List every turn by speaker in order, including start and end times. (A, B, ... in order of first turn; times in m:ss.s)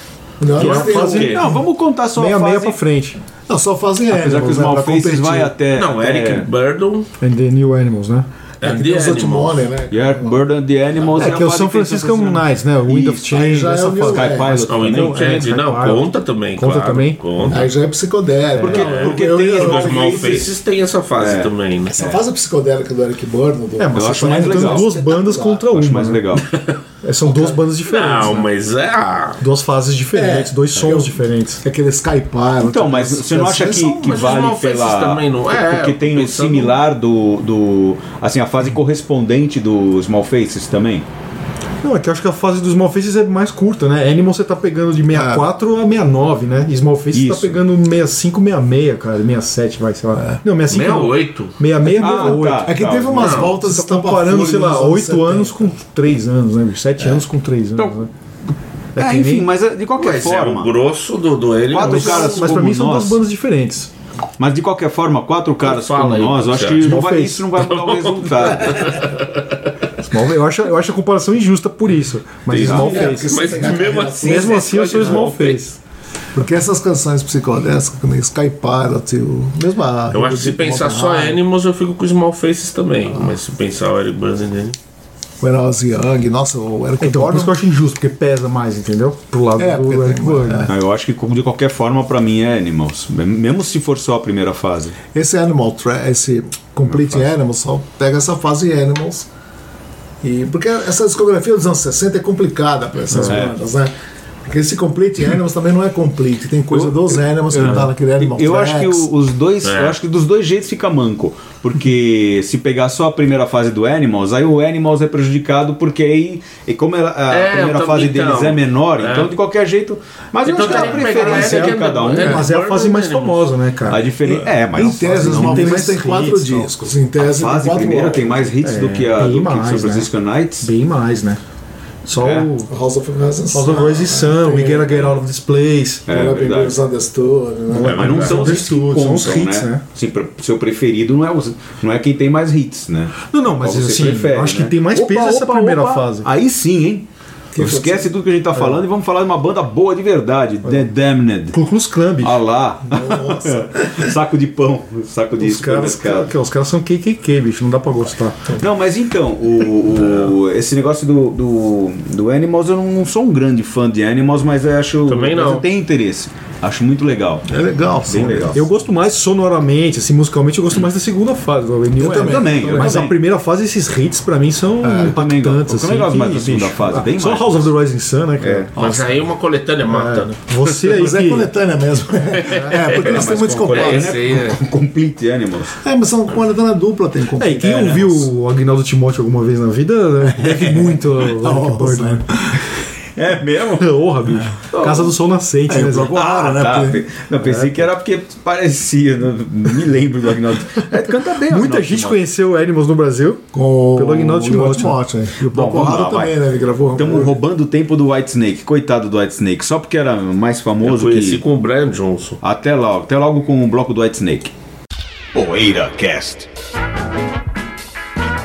0:00.4-0:01.6 A
0:00.5-0:01.6 B
0:00.6-0:01.4 C
0:00.6-0:02.8 D
0:02.1-0:03.2 B
0:03.5-0:05.5 A
0:04.1-0:06.5 D
0:05.7-0:07.1 C
0:07.2-0:08.3 B
0:08.6-0:09.7 C
0:08.6-0:10.4 A
0:09.9-0:15.2 D
0:11.1-0:17.2 B
0:13.3-0:15.6 A
0:14.7-0:17.7 C
0:17.5-0:20.6 A
0:18.5-0:18.8 B
0:18.6-0:20.5 D
0:18.6-0:22.0 C
0:21.1-0:22.2 D
0:21.9-0:25.6 A
0:23.8-0:26.2 B
0:23.9-0:24.9 D
0:25.6-0:26.5 D
0:27.0-0:28.5 B
0:27.2-0:27.6 A
0:27.9-0:29.4 C
0:29.4-0:31.6 B
0:30.1-0:34.4 A
0:32.6-0:41.0 D
0:33.8-0:36.8 C
0:41.8-0:52.8 B
0:45.1-0:45.5 A
0:47.1-0:47.6 D
0:50.1-0:50.4 A
0:50.7-0:51.6 C
0:51.9-0:53.5 D
0:52.0-0:55.7 A
0:53.1-0:53.6 C
0:53.6-0:58.1 B
0:58.9-0:59.5 B
0:59.0-1:00.7 D
0:59.9-1:02.5 C
1:01.7-1:03.2 D
1:01.8-1:03.9 B
1:04.4-1:09.1 D
1:05.6-1:07.0 C
1:06.8-1:07.5 B
1:07.6-1:09.4 C
1:10.0-1:15.8 B
1:12.5-1:15.6 C
1:12.6-1:12.9 D
1:12.6-1:15.1 A
1:16.3-1:21.4 A
1:20.1-1:24.8 C
1:23.1-1:23.4 A
1:25.4-1:27.6 A
1:27.0-1:30.7 B
1:29.6-1:30.7 A
1:30.6-1:35.0 D
1:35.1-1:39.3 A
1:36.8-1:37.3 D
1:40.2-1:43.9 A
1:43.1-1:43.4 B
1:43.2-1:43.5 D
1:44.4-1:49.1 A
1:46.7-2:02.4 D
1:47.5-1:47.9 B
1:49.6-1:50.0 C
1:57.3-1:59.4 C
2:00.4-2:03.5 C
2:00.6-2:04.0 B
2:03.8-2:06.0 D
2:04.2-2:08.4 A
2:05.2-2:06.7 B
2:07.3-2:10.7 D
2:08.6-2:10.1 B
2:10.6-2:11.4 B
2:12.0-2:12.7 B
2:12.2-2:12.5 D
2:12.7-2:15.2 A
2:13.5-2:16.1 B
2:16.1-2:16.8 D
2:16.1-2:18.5 A
2:17.7-2:19.8 B
2:17.8-2:31.6 D
2:23.3-2:26.3 B
2:27.5-2:28.1 A
2:31.5-2:32.4 B
2:32.2-2:36.3 D
2:32.9-2:34.1 A
2:35.4-2:38.5 B
2:38.5-2:47.5 D
2:45.1-2:45.6 C
2:47.5-2:48.6 A
2:48.0-2:48.6 D
2:48.5-2:58.7 B
2:52.0-2:53.0 A
2:52.1-2:53.1 D
2:54.8-2:57.7 D
2:58.4-2:58.7 D
2:58.8-2:59.2 A
2:58.8-3:00.4 C
2:59.9-3:00.2 A
3:00.1-3:01.5 B
3:00.8-3:04.3 A
3:02.3-3:04.6 C
3:02.5-3:02.7 B
3:02.9-3:05.8 D
3:05.8-3:08.3 A
3:07.4-3:12.2 B
3:10.4-3:12.6 A
3:13.2-3:14.0 D
3:13.8-3:16.1 B
3:14.6-3:15.1 D
3:15.7-3:17.0 A
3:16.1-3:22.2 D
3:17.4-3:17.8 B
3:21.4-3:25.0 B
3:23.5-3:27.4 A
3:25.4-3:26.4 D
3:26.9-3:31.4 D
3:30.8-3:32.4 C
3:32.4-3:34.5 D
3:35.3-3:36.5 D